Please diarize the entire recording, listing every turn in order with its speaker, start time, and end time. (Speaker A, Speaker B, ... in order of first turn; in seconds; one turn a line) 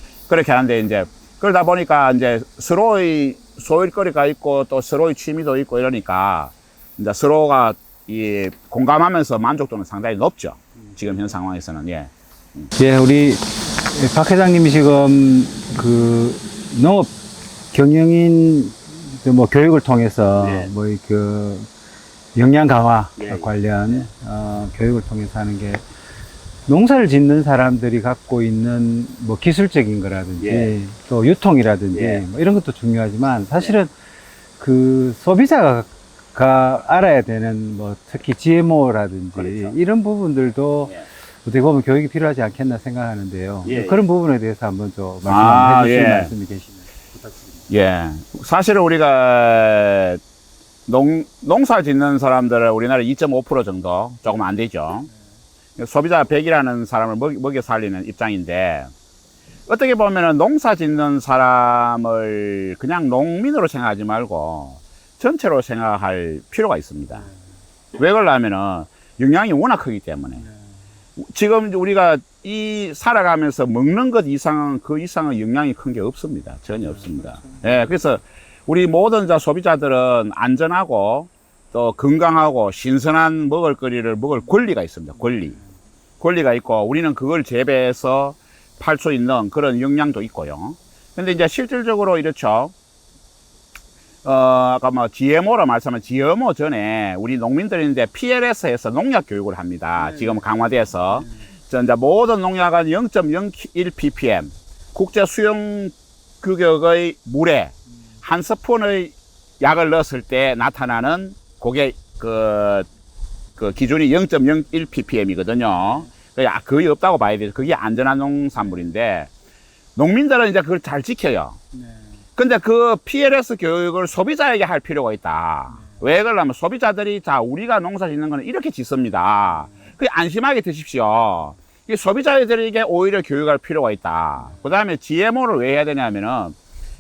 Speaker A: 0.3-12.7
Speaker B: 12.8-17.1
Speaker B: 17.7-21.7
Speaker A: 20.4-20.7
Speaker B: 22.4-25.8
Speaker A: 23.2-24.1
Speaker B: 26.7-33.9
Speaker A: 30.4-30.7
Speaker A: 31.9-32.2
Speaker B: 34.6-47.6
Speaker A: 39.4-39.7
Speaker A: 43.6-44.0
Speaker A: 45.3-46.3
Speaker A: 47.7-50.2
Speaker A: 50.9-55.1
Speaker A: 55.8-58.9
Speaker A: 59.7-67.2
Speaker A: 67.9-70.4
Speaker A: 71.2-85.6
Speaker B: 77.0-77.6
Speaker A: 86.2-92.7
Speaker A: 94.2-112.9
Speaker A: 113.6-119.3
Speaker A: 120.0-121.6
Speaker A: 122.4-136.6
Speaker B: 125.7-126.0